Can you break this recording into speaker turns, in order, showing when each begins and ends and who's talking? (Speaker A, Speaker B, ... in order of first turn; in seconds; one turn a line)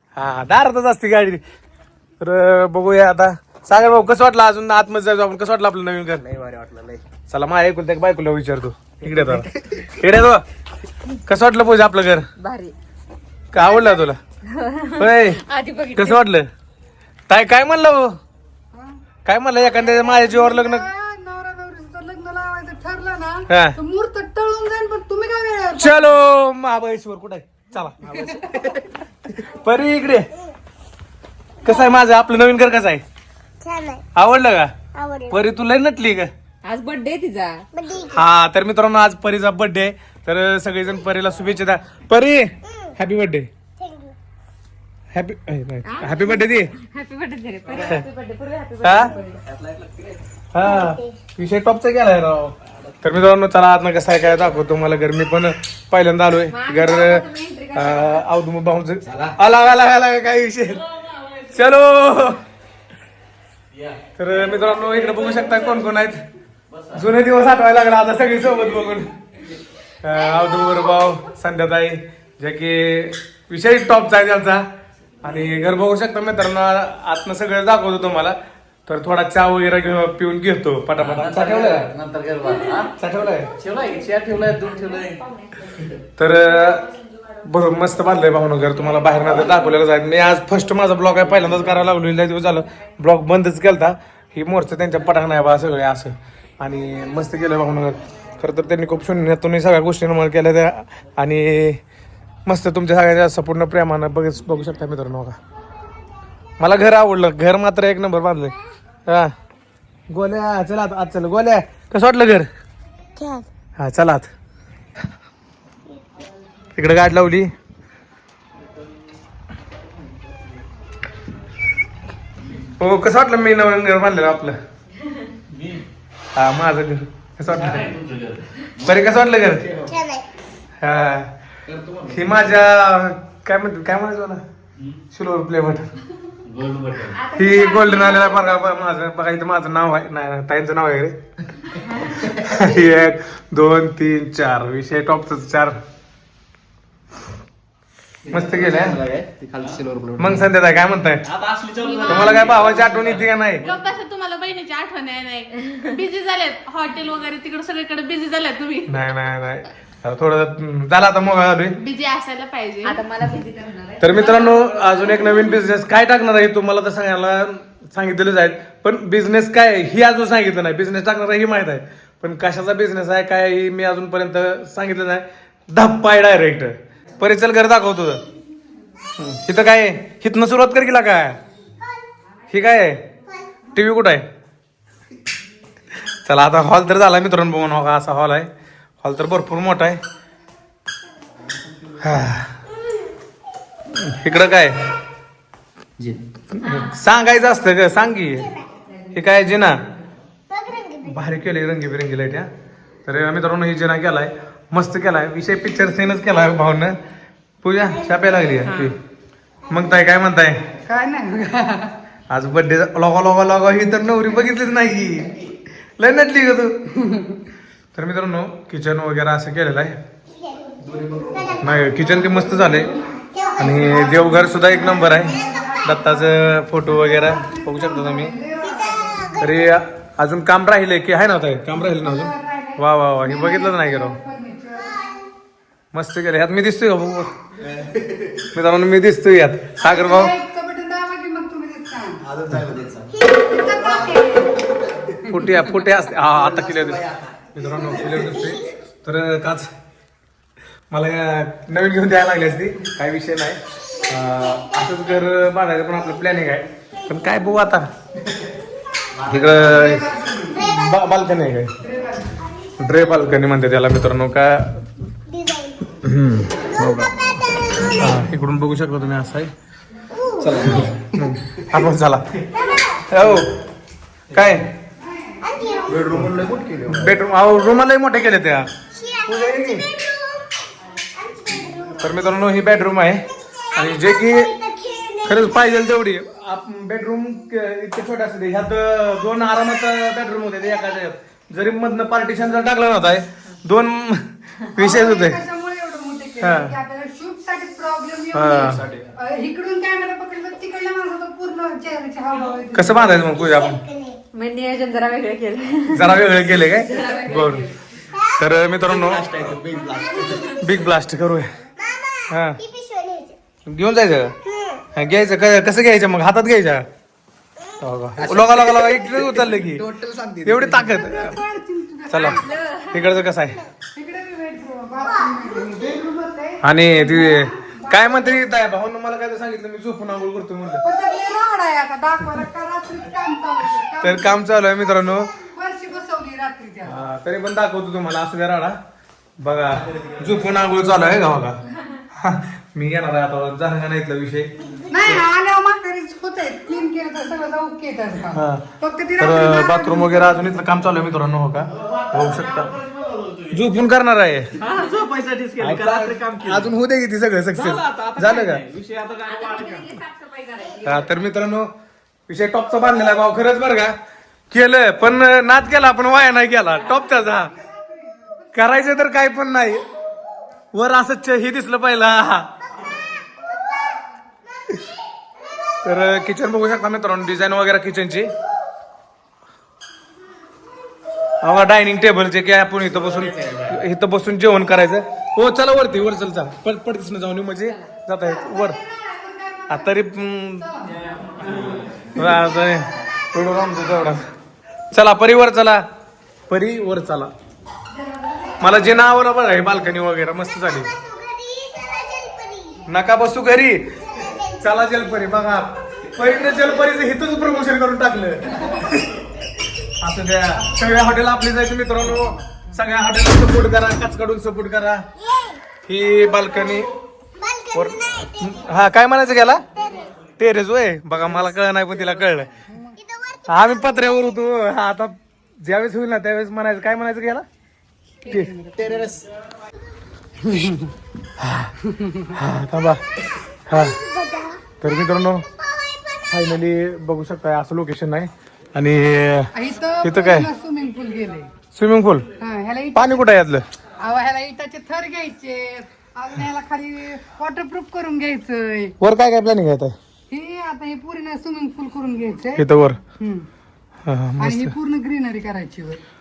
Speaker A: 0.1-1.4
Speaker A: 2.2-6.3
Speaker B: 6.3-7.0
Speaker A: 7.3-10.4
Speaker A: 11.3-12.2
Speaker C: 12.4-12.8
Speaker A: 13.5-14.2
Speaker D: 13.6-13.8
Speaker C: 14.4-16.2
Speaker A: 15.0-15.4
Speaker A: 15.9-16.5
Speaker A: 17.3-18.1
Speaker D: 18.7-19.0
Speaker A: 19.2-20.9
Speaker D: 19.7-26.2
Speaker A: 23.5-23.8
Speaker A: 25.8-28.7
Speaker A: 29.3-30.3
Speaker A: 31.6-33.0
Speaker E: 33.6-34.0
Speaker A: 34.1-34.7
Speaker E: 34.9-35.4
Speaker A: 35.3-36.3
Speaker C: 36.6-37.6
Speaker E: 37.7-38.2
Speaker A: 38.1-43.5
Speaker E: 43.8-44.1
Speaker A: 45.1-46.7
Speaker C: 45.9-49.4
Speaker A: 47.8-48.0
Speaker A: 48.8-49.1
Speaker B: 49.5-50.2
Speaker A: 50.5-60.8
Speaker E: 50.6-51.2
Speaker C: 56.5-58.2
Speaker B: 59.1-59.3
Speaker A: 61.4-62.4
Speaker A: 64.2-66.2
Speaker B: 66.7-67.0
Speaker A: 66.9-69.1
Speaker A: 70.0-74.7
Speaker A: 75.2-81.9
Speaker B: 81.0-82.9
Speaker C: 82.4-82.9
Speaker A: 83.0-83.5
Speaker B: 83.6-85.2
Speaker C: 83.7-85.8
Speaker A: 86.2-86.9
Speaker A: 87.4-101.8
Speaker B: 91.4-91.7
Speaker A: 102.5-105.4
Speaker A: 106.6-108.5
Speaker A: 109.0-109.3
Speaker A: 110.1-112.5
Speaker E: 113.2-113.5
Speaker A: 113.8-114.3
Speaker A: 116.7-117.5
Speaker A: 122.8-124.6
Speaker B: 125.5-125.8
Speaker A: 126.3-127.9
Speaker B: 127.5-128.7
Speaker A: 128.8-129.7
Speaker E: 129.8-130.3
Speaker A: 130.8-131.3
Speaker B: 131.7-132.5
Speaker A: 132.0-134.4
Speaker A: 135.1-135.9
Speaker B: 136.4-137.2
Speaker C: 137.1-138.6
Speaker A: 137.3-141.2
Speaker A: 142.2-145.8
Speaker A: 148.3-149.0
Speaker B: 148.3-150.4
Speaker A: 150.2-151.3
Speaker B: 151.3-153.3
Speaker F: 151.8-152.7
Speaker A: 152.1-153.7
Speaker F: 153.6-158.9
Speaker A: 158.9-161.8
Speaker F: 161.8-163.0
Speaker C: 162.8-164.6
Speaker A: 164.0-178.2
Speaker A: 179.2-181.4
Speaker A: 182.5-183.0
Speaker A: 183.7-184.3
Speaker A: 186.2-188.5
Speaker A: 189.0-190.0
Speaker A: 192.0-192.6
Speaker E: 192.8-193.1
Speaker A: 193.9-194.8
Speaker A: 196.5-198.5
Speaker A: 199.1-199.8
Speaker E: 200.5-201.1
Speaker A: 201.0-202.5
Speaker A: 203.1-207.0
Speaker A: 207.6-209.0
Speaker A: 209.7-210.6
Speaker D: 210.8-211.9
Speaker A: 212.3-215.4
Speaker A: 216.0-216.8
Speaker D: 217.0-217.3
Speaker A: 217.9-220.0
Speaker E: 220.3-221.9
Speaker B: 220.8-221.4
Speaker A: 221.6-222.9
Speaker E: 223.1-223.9
Speaker D: 223.4-229.4
Speaker A: 223.6-228.3
Speaker E: 225.2-225.7
Speaker E: 228.7-229.5
Speaker A: 229.4-234.2
Speaker D: 231.7-235.1
Speaker E: 234.9-235.2
Speaker A: 235.9-237.3
Speaker B: 237.7-238.3
Speaker A: 238.5-240.3
Speaker D: 239.8-242.2
Speaker B: 242.3-243.1
Speaker D: 243.3-244.6
Speaker D: 245.1-245.7
Speaker A: 245.3-249.7
Speaker B: 246.3-247.3
Speaker E: 248.3-248.6
Speaker A: 250.9-257.9
Speaker A: 259.2-261.7
Speaker B: 259.2-259.8
Speaker D: 259.7-260.6
Speaker E: 260.5-261.1
Speaker D: 261.8-262.4
Speaker A: 262.8-264.9
Speaker E: 265.3-265.9
Speaker A: 266.0-267.3
Speaker A: 267.8-269.5
Speaker E: 270.1-270.6
Speaker A: 270.4-272.4
Speaker E: 272.5-273.0
Speaker A: 273.0-273.5
Speaker A: 274.3-274.7
Speaker D: 275.0-276.2
Speaker E: 275.4-276.0
Speaker B: 275.9-277.1
Speaker A: 276.9-278.7
Speaker E: 278.9-282.1
Speaker A: 279.2-279.9
Speaker A: 281.9-284.5
Speaker E: 283.5-285.6
Speaker A: 285.2-295.4
Speaker D: 294.7-303.3
Speaker A: 296.4-296.7
Speaker A: 298.3-298.9
Speaker A: 302.7-303.8
Speaker E: 303.3-304.2
Speaker C: 304.3-306.2
Speaker A: 305.9-307.7
Speaker C: 306.7-307.7
Speaker E: 308.1-308.9
Speaker A: 308.4-309.3
Speaker B: 308.8-310.6
Speaker E: 309.5-310.2
Speaker C: 310.1-310.6
Speaker A: 310.6-311.5
Speaker E: 311.8-313.4
Speaker A: 312.3-312.6
Speaker A: 313.6-314.3
Speaker E: 314.4-314.9
Speaker A: 314.9-316.9
Speaker A: 317.8-319.9
Speaker B: 318.2-320.9
Speaker A: 320.4-321.4
Speaker D: 320.8-322.5
Speaker A: 322.1-322.4
Speaker C: 322.2-323.0
Speaker A: 322.9-323.6
Speaker E: 323.0-323.5
Speaker D: 323.9-328.5
Speaker E: 325.1-325.4
Speaker A: 326.6-330.8
Speaker D: 330.8-337.0
Speaker A: 334.0-335.3
Speaker A: 336.8-338.8
Speaker A: 339.4-341.6
Speaker A: 342.1-344.5
Speaker D: 344.9-350.4
Speaker A: 348.3-348.6
Speaker A: 349.2-352.7
Speaker B: 351.8-353.5
Speaker A: 353.5-354.5
Speaker B: 354.6-356.7
Speaker A: 355.6-358.6
Speaker B: 357.5-360.0
Speaker C: 359.2-361.1
Speaker A: 360.8-361.7
Speaker A: 362.3-363.9
Speaker A: 364.5-367.5
Speaker D: 367.0-368.5
Speaker A: 368.5-369.8
Speaker A: 370.7-372.5
Speaker A: 375.8-378.3
Speaker A: 381.4-388.8
Speaker B: 383.0-383.7
Speaker D: 388.2-391.0
Speaker A: 389.7-390.7
Speaker B: 391.1-391.8
Speaker A: 392.1-394.2
Speaker A: 394.9-395.8
Speaker A: 396.5-397.3
Speaker D: 397.9-398.7
Speaker A: 398.6-400.9
Speaker E: 400.8-402.9
Speaker A: 402.9-403.9
Speaker E: 404.1-405.0
Speaker A: 404.6-409.2
Speaker A: 410.0-415.0
Speaker E: 415.2-415.6
Speaker A: 415.9-416.9
Speaker E: 417.4-418.7
Speaker A: 417.7-419.6
Speaker E: 419.7-420.1
Speaker A: 420.4-422.5
Speaker D: 422.7-423.0
Speaker E: 423.0-424.4
Speaker A: 423.5-427.4
Speaker D: 428.2-429.1
Speaker A: 428.2-428.5
Speaker B: 428.8-429.3
Speaker D: 430.4-430.9
Speaker A: 431.4-431.7
Speaker D: 431.8-432.3
Speaker A: 432.3-433.0
Speaker A: 433.7-434.0
Speaker E: 433.7-434.7
Speaker A: 434.8-435.4
Speaker E: 435.5-436.3
Speaker A: 436.3-440.5
Speaker D: 439.5-441.5
Speaker A: 441.7-442.3
Speaker D: 442.4-443.3
Speaker A: 442.9-443.6
Speaker D: 444.0-448.9
Speaker A: 449.0-449.9
Speaker D: 450.3-452.6
Speaker A: 452.5-453.0
Speaker D: 453.2-453.5
Speaker A: 454.1-454.7
Speaker D: 454.4-456.0